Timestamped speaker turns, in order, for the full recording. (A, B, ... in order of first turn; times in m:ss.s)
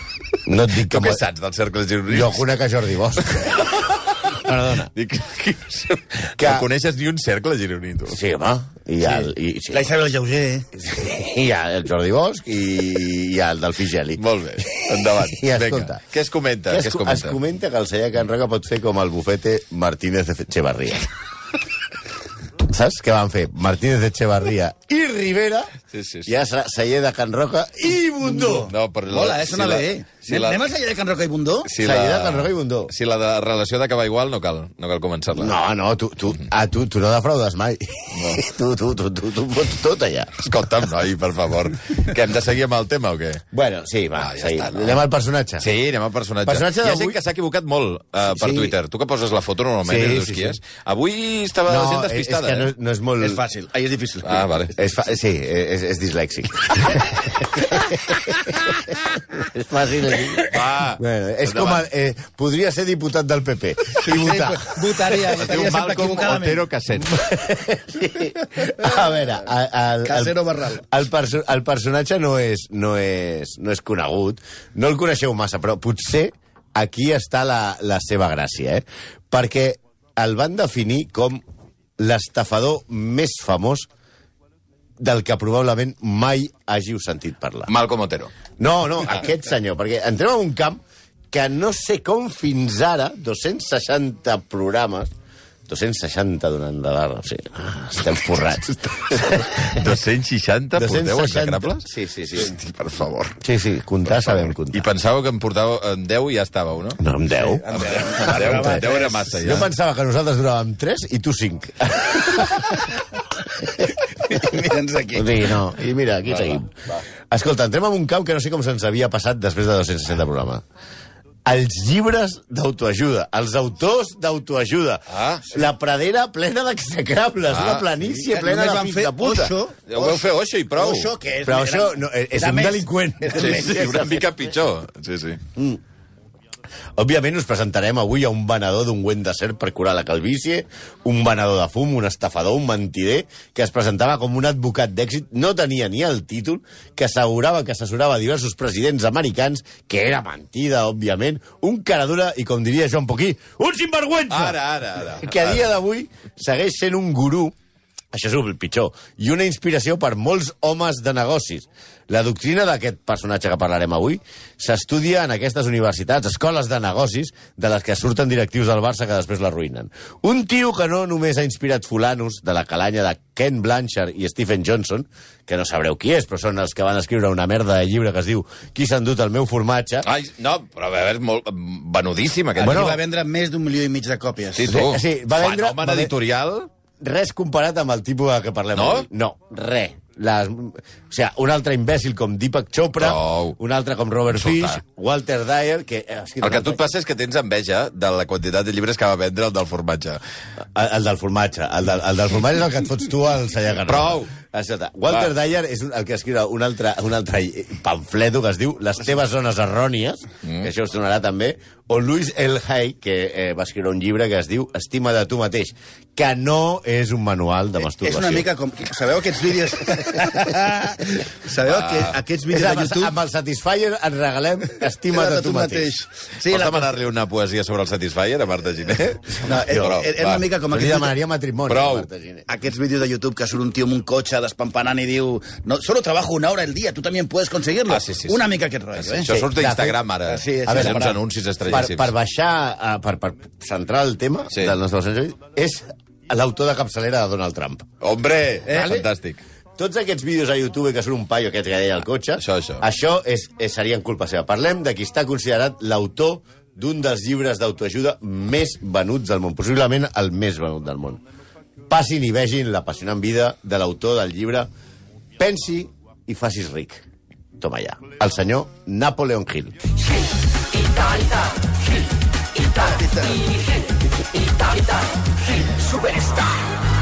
0:00.4-0:01.2 A
0:00.8-0:02.4 B
0:02.1-0:04.9 A
0:03.3-0:04.4 B
0:04.9-0:08.2 B
0:06.4-0:06.7 A
0:08.1-0:09.9 A
0:09.0-0:10.7 C
0:10.7-0:14.2 A
0:14.2-0:17.4 B
0:15.2-0:16.0 A
0:16.7-0:21.1 A
0:22.6-0:25.8 A
0:25.9-0:26.3 B
0:26.2-0:28.7 A
0:28.2-0:31.7 C
0:28.7-0:30.6 B
0:31.6-0:35.6 B
0:31.8-0:32.9 A
0:35.3-0:40.5 A
0:38.1-0:38.4 B
0:40.4-0:43.4 B
0:43.5-0:45.7 A
0:44.2-0:45.0 B
0:45.6-0:52.7 B
0:46.5-0:47.2 A
0:48.2-0:48.8 A
0:49.8-0:50.6 A
0:51.7-0:53.4 A
0:53.2-0:54.5 C
0:54.2-0:54.7 B
0:54.8-1:04.8 A
1:00.4-1:01.8 B
1:04.0-1:06.6 C
1:05.2-1:07.2 B
1:07.0-1:21.4 A
1:10.0-1:10.8 C
1:22.0-1:23.9 A
1:25.0-1:27.7 A
1:27.7-1:28.3 B
1:28.6-1:30.8 A
1:31.3-1:35.1 A
1:35.7-1:39.9 A
1:39.7-1:43.4 B
1:40.8-1:42.5 A
1:43.4-1:44.9 A
1:44.1-1:47.0 B
1:47.0-1:47.7 A
1:47.3-1:49.3 C
1:47.7-1:49.7 B
1:48.3-1:52.9 A
1:54.3-1:55.5 C
1:55.1-1:56.7 A
1:56.3-1:56.6 B
1:57.3-2:00.6 A
2:01.5-2:09.6 A
2:05.1-2:05.5 B
2:07.5-2:07.9 B
2:08.2-2:13.9 C
2:09.9-2:11.1 B
2:11.4-2:14.3 A
2:13.3-2:15.4 B
2:15.6-2:15.8 A
2:17.0-2:34.6 A
2:34.3-2:35.6 B
2:35.2-2:37.6 A
2:38.1-3:00.1 A
3:00.0-3:03.0 B
3:02.6-3:03.0 A
3:02.6-3:04.7 C
3:04.6-3:06.7 B
3:04.7-3:06.1 A
3:07.0-3:16.8 A
3:08.8-3:09.1 B
3:13.0-3:13.6 B
3:14.3-3:14.8 B
3:16.4-3:20.2 B
3:20.8-3:38.5 A
3:23.9-3:24.3 B
3:30.4-3:30.7 B
3:38.0-3:43.1 C
3:41.6-3:42.2 B
3:42.5-3:45.9 A
3:45.1-3:46.9 C
3:46.4-3:50.4 B
3:49.4-3:51.1 C
3:50.7-3:52.4 A
3:51.7-3:52.1 B
3:52.5-3:59.3 C
3:57.9-4:02.1 B
3:59.3-4:00.0 A
4:00.3-4:01.2 C
4:00.7-4:07.9 A
4:08.0-4:09.4 B
4:08.7-4:09.0 C
4:08.7-4:09.1 A
4:09.8-4:21.2 A
4:12.4-4:12.8 B
4:21.9-4:24.7 A
4:25.4-4:27.0 A
4:27.6-4:29.9 A
4:32.6-4:33.7 C
4:35.8-4:36.4 C